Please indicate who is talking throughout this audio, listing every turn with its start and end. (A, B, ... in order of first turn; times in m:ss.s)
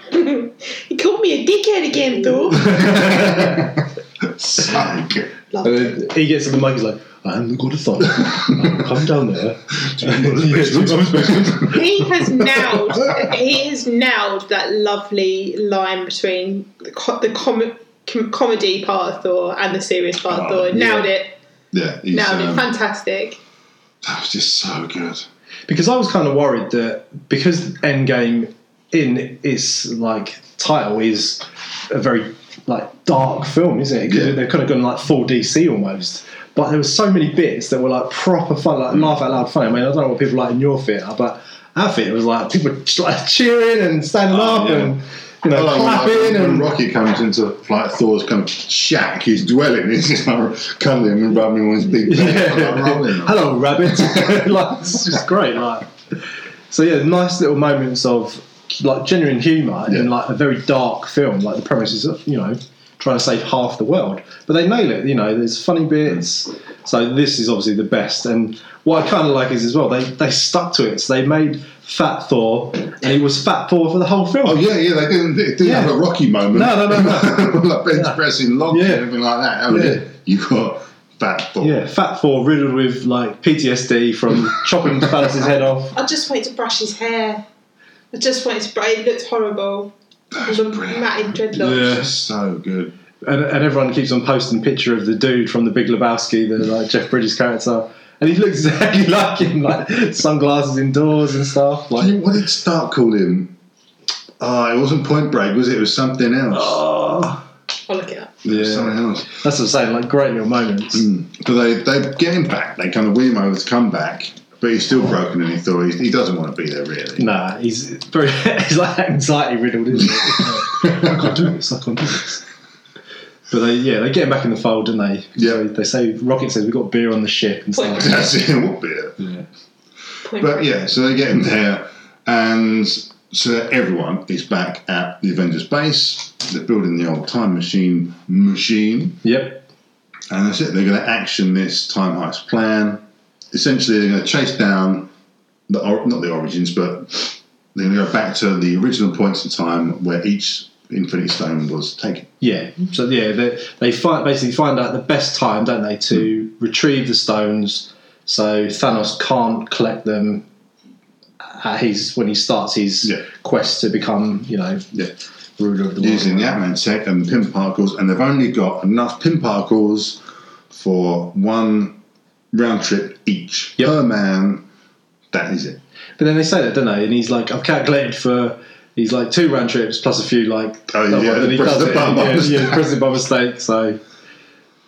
0:00.1-0:03.2 A
0:02.6-0:03.8 B
0:02.7-0:05.3 C
0:05.5-0:06.0 A
0:05.6-0:12.5 B
0:09.7-0:11.8 C
0:11.6-0:21.3 A
0:20.3-0:21.0 C
0:20.7-0:21.0 B
0:21.7-0:22.6 C
0:22.1-0:23.4 A
0:24.0-0:25.2 C
0:25.7-0:46.7 B
0:34.1-0:34.4 C
0:44.3-0:45.0 C
0:45.5-0:54.8 C
0:52.0-0:55.9 B
0:56.7-1:14.6 B
1:14.4-1:21.8 C
1:15.6-1:16.0 B
1:16.5-1:18.2 B
1:18.7-1:19.0 B
1:19.7-1:20.0 B
1:21.6-1:26.0 B
1:25.9-1:27.4 A
1:28.1-1:32.0 A
1:30.3-1:32.9 C
1:31.6-1:32.1 B
1:33.2-1:42.2 B
1:41.9-1:43.5 C
1:44.4-1:46.8 C
1:46.5-1:47.4 B
1:47.9-1:48.3 A
1:48.4-1:49.3 C
1:48.5-1:51.1 B
1:50.9-1:57.2 C
1:57.2-2:02.4 B
2:00.2-2:01.3 C
2:03.5-2:08.2 B
2:07.8-2:08.1 A
2:07.9-2:09.2 C
2:09.2-2:09.4 B
2:10.2-2:10.6 A
2:10.2-2:19.2 C
2:19.2-2:19.6 B
2:20.3-2:25.1 C
2:25.7-2:32.3 C
2:32.4-2:40.4 B
2:41.5-2:44.9 B
2:45.6-2:46.6 B
2:46.0-2:52.0 C
2:52.5-2:54.6 C
2:55.3-2:55.8 C
2:56.2-3:04.0 B
3:00.9-3:02.8 C